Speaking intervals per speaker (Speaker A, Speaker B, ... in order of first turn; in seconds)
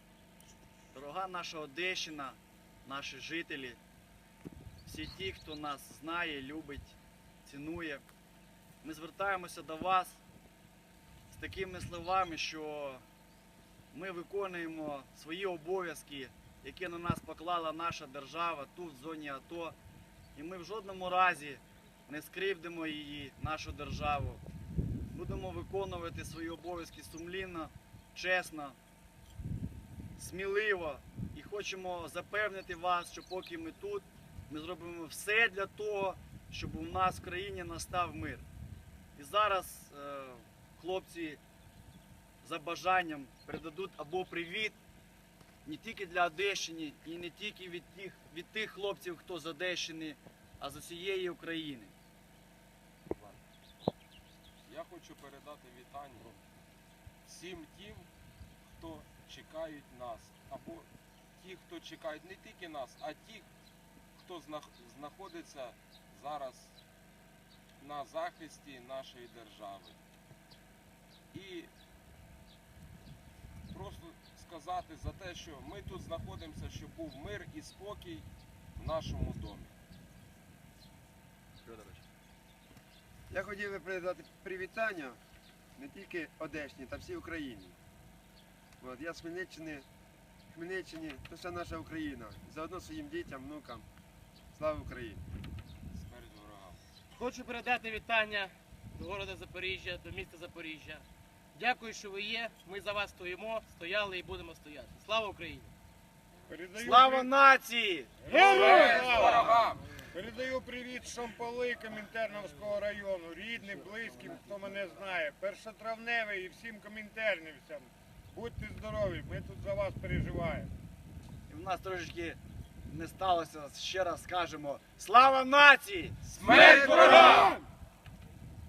Speaker A: 0.9-3.8, 4.8-8.0, 8.8-10.2, 11.3-13.0, 13.9-19.8, 20.3-24.4, 25.1-28.8, 30.2-38.4, 39.1-41.4, 42.4-44.8, 45.6-51.9, 106.8-108.3, 121.5-127.6
Speaker B: 53.1-53.4, 54.6-56.4, 57.2-58.1, 58.6-63.5, 64.1-66.8, 67.8-70.0, 71.3-71.7, 73.7-79.7, 95.9-96.8, 108.3-110.0, 126.3-127.4
Speaker C: 83.3-85.2, 85.8-87.8, 88.8-89.9, 90.5-93.9, 94.5-95.2
Speaker D: 97.1-105.7
Speaker E: 106.5-107.3, 108.3-109.4, 110.1-120.7